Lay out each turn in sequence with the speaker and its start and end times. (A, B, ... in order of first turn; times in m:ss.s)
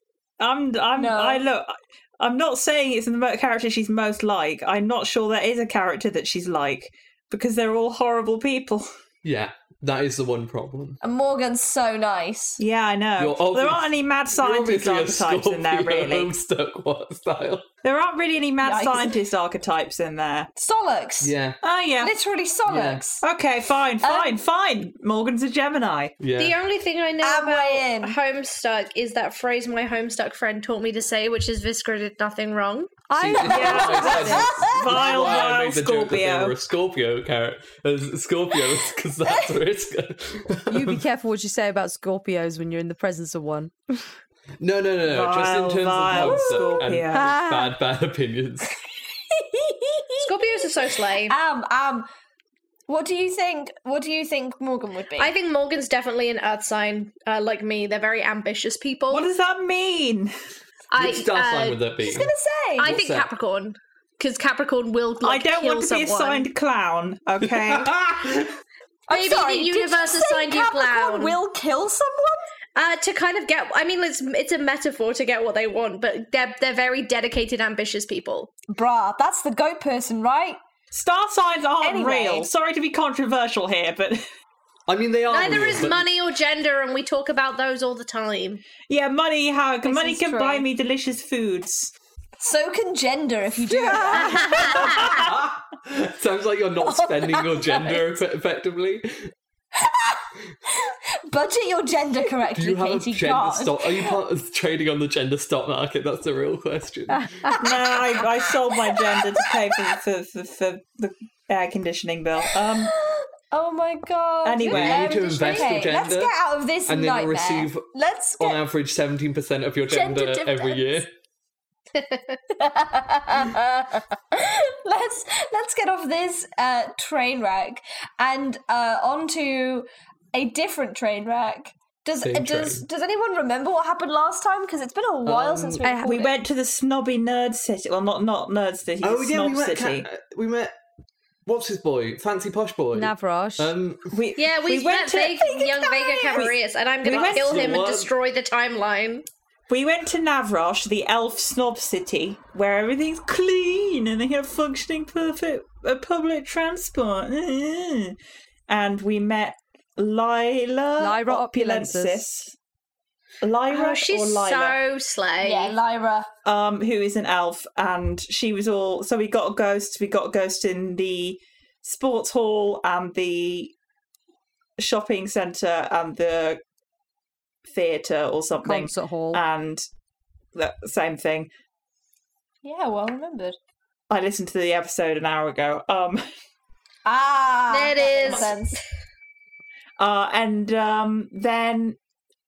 0:00.4-0:08.9 A
0:01.0-0:01.4 B
0:09.2-0:11.0 C
0:11.0-0:12.6 B
0:12.6-0:16.3 A
0:13.2-0:17.6 C
0:17.8-0:20.5 A
0:18.6-0:19.1 B
0:20.6-0:21.3 B
0:21.2-0:21.6 C
0:21.6-0:22.1 A
0:22.0-0:23.2 B
0:22.7-0:23.0 C
0:23.2-0:26.2 A
0:24.0-0:24.4 B
0:26.2-0:26.6 C
0:26.4-0:32.9 D
0:27.2-0:28.2 B
0:33.1-0:34.6 E
0:33.2-0:41.0 C
0:33.4-0:36.5 A
0:33.5-0:35.2 B
0:40.7-0:44.1 E
0:44.6-0:48.7 C
0:45.0-0:47.3 A
0:46.2-0:46.8 B
0:47.1-0:47.8 E
0:49.3-0:52.1 B
0:50.2-0:51.3 D
0:52.9-0:55.3 B
0:55.2-0:59.3 D
0:59.1-1:00.3 A
1:00.9-1:01.8 D
1:00.9-1:03.3 C
1:02.0-1:02.9 B
1:02.8-1:06.5 D
1:05.2-1:08.0 A
1:07.5-1:08.5 C
1:09.1-1:12.5 B
1:09.1-1:11.4 D
1:12.7-1:18.5 D
1:18.7-1:20.6 B
1:20.9-1:24.2 A
1:21.8-1:22.5 B
1:24.9-1:26.0 C
1:25.3-1:28.6 D
1:28.9-1:31.9 A
1:29.8-1:30.6 B
1:32.4-1:35.2 B
1:33.7-1:34.9 E
1:34.8-1:39.3 C
1:36.8-1:38.2 B
1:39.8-1:44.2 B
1:42.5-1:47.6 C
1:47.1-1:47.6 E
1:47.6-1:52.9 A
1:48.9-1:49.4 B
1:52.6-1:58.6 B
1:54.4-1:55.2 A
1:54.6-1:56.3 C
1:56.9-1:57.9 C
1:58.4-2:01.1 C
1:59.9-2:01.0 B
2:02.5-2:16.4 B
2:12.2-2:12.8 C
2:15.2-2:15.9 C
2:15.8-2:16.3 E
2:16.0-2:20.1 A
2:19.0-2:20.7 C
2:21.4-2:24.1 C
2:22.9-2:23.7 E
2:24.1-2:25.6 A
2:24.4-2:29.2 D
2:25.5-2:26.5 B
2:26.3-2:27.9 A
2:27.0-2:28.1 C
2:29.7-2:38.2 A
2:38.7-2:42.5 A
2:41.0-2:42.2 E
2:43.4-2:44.8 A
2:43.7-2:45.8 D
2:45.4-2:46.3 B
2:46.4-2:53.7 A
2:54.8-2:56.6 A
2:57.6-2:59.8 A
2:58.6-2:59.4 E
3:00.5-3:01.5 A
3:02.6-3:03.6 B
3:04.1-3:06.2 A
3:07.0-3:08.8 B
3:07.7-3:08.8 D
3:10.0-3:12.0 A